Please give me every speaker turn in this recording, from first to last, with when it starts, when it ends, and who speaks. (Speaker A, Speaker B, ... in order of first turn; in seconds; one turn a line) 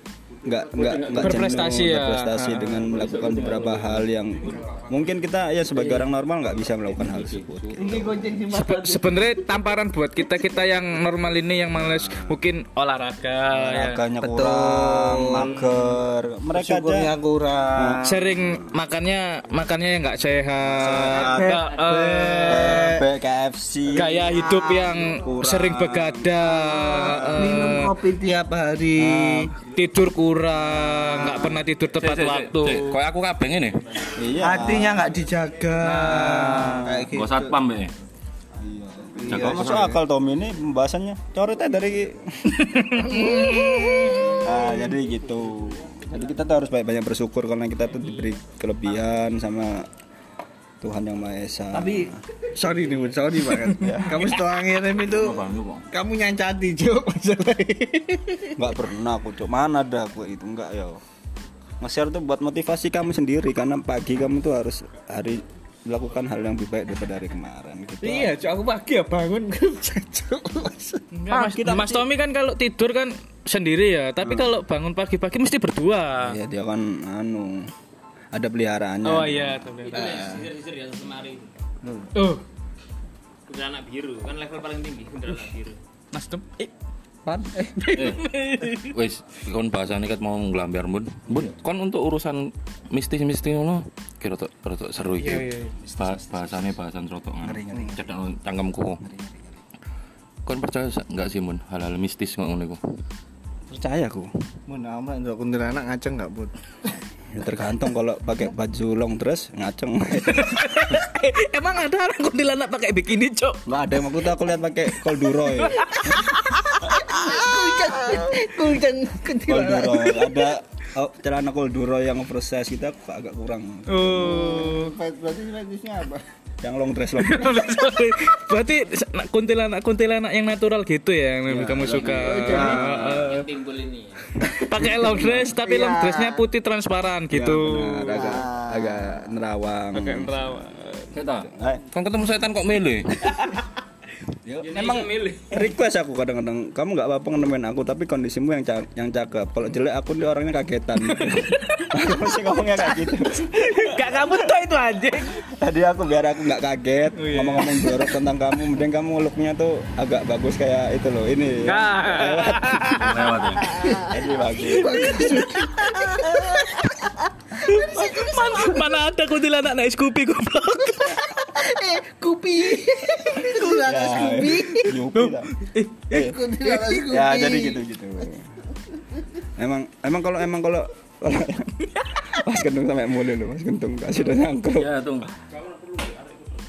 Speaker A: 0.4-8.2
Speaker B: 0.7-1.4
Speaker C: 1.2-2.4
Speaker D: 2.4-2.7
Speaker B: 2.7-4.0
Speaker B: 6.9-7.8
Speaker D: 7.8-9.3
Speaker C: 8.5-14.0
Speaker A: 11.7-12.4
Speaker A: 13.5-17.1
Speaker D: 14.2-15.8
Speaker D: 16.5-18.2
Speaker A: 17.7-18.7
Speaker C: 18.0-22.9
Speaker A: 20.6-21.6
Speaker D: 20.9-23.0
Speaker A: 22.5-24.4
Speaker C: 23.9-27.9
Speaker D: 23.9-25.1
Speaker A: 25.0-27.6
Speaker D: 26.6-29.5
Speaker A: 28.9-29.5
Speaker C: 29.6-32.9
Speaker D: 30.8-31.6
Speaker B: 32.0-33.8
Speaker A: 34.1-35.0
Speaker D: 34.3-37.5
Speaker C: 35.8-36.9
Speaker A: 36.2-37.0
Speaker B: 37.1-37.9
Speaker A: 38.5-43.4
Speaker D: 39.1-40.0
Speaker B: 39.3-39.9
Speaker C: 42.5-44.5
Speaker D: 43.1-44.2
Speaker A: 44.4-49.9
Speaker A: 50.8-52.2
Speaker D: 51.7-58.6
Speaker A: 53.7-54.3
Speaker B: 55.0-55.8
Speaker A: 58.6-61.0
Speaker A: 61.8-68.3
Speaker D: 68.0-71.0
Speaker C: 71.1-76.4
Speaker A: 71.3-72.0
Speaker A: 74.2-74.5
Speaker A: 76.2-77.7
Speaker A: 78.3-79.7
Speaker C: 79.0-80.3
Speaker E: 79.8-81.5
Speaker C: 82.1-82.4
Speaker E: 83.5-85.8
Speaker C: 86.1-86.7
Speaker D: 87.3-87.9
Speaker C: 87.9-88.9
Speaker B: 87.9-99.0
Speaker C: 95.2-95.7
Speaker A: 95.8-96.8
Speaker A: 97.4-98.0
Speaker A: 99.0-99.6
Speaker B: 100.5-102.8
Speaker A: 103.7-104.3
Speaker D: 104.7-106.5
Speaker A: 107.3-110.8
Speaker C: 110.3-113.6
Speaker A: 113.7-116.4
Speaker C: 115.5-116.8
Speaker D: 116.7-120.3
Speaker A: 119.5-124.6
Speaker C: 123.9-124.9
Speaker D: 124.1-126.2
Speaker A: 126.6-127.6
Speaker C: 127.2-133.5
Speaker A: 131.5-133.1
Speaker D: 132.0-133.1
Speaker E: 132.5-134.3
Speaker C: 134.4-138.4
Speaker A: 134.8-135.3
Speaker D: 135.0-136.4
Speaker A: 137.3-141.8
Speaker D: 138.1-139.2
Speaker C: 139.9-140.7
Speaker B: 141.1-143.3
Speaker A: 144.4-154.4
Speaker E: 144.6-145.6
Speaker C: 151.2-152.1
Speaker C: 152.8-155.4
Speaker A: 155.4-163.1
Speaker C: 157.1-158.1
Speaker C: 161.6-163.2
Speaker B: 162.9-163.8
Speaker D: 163.8-168.8
Speaker A: 163.9-165.4
Speaker C: 164.9-166.8
Speaker C: 167.6-171.5
Speaker D: 171.5-175.0
Speaker A: 173.6-175.5
Speaker C: 175.1-176.9
Speaker A: 176.1-176.4
Speaker D: 176.1-177.8
Speaker A: 176.9-178.6
Speaker A: 179.6-184.9
Speaker B: 184.7-185.3
Speaker E: 185.6-186.4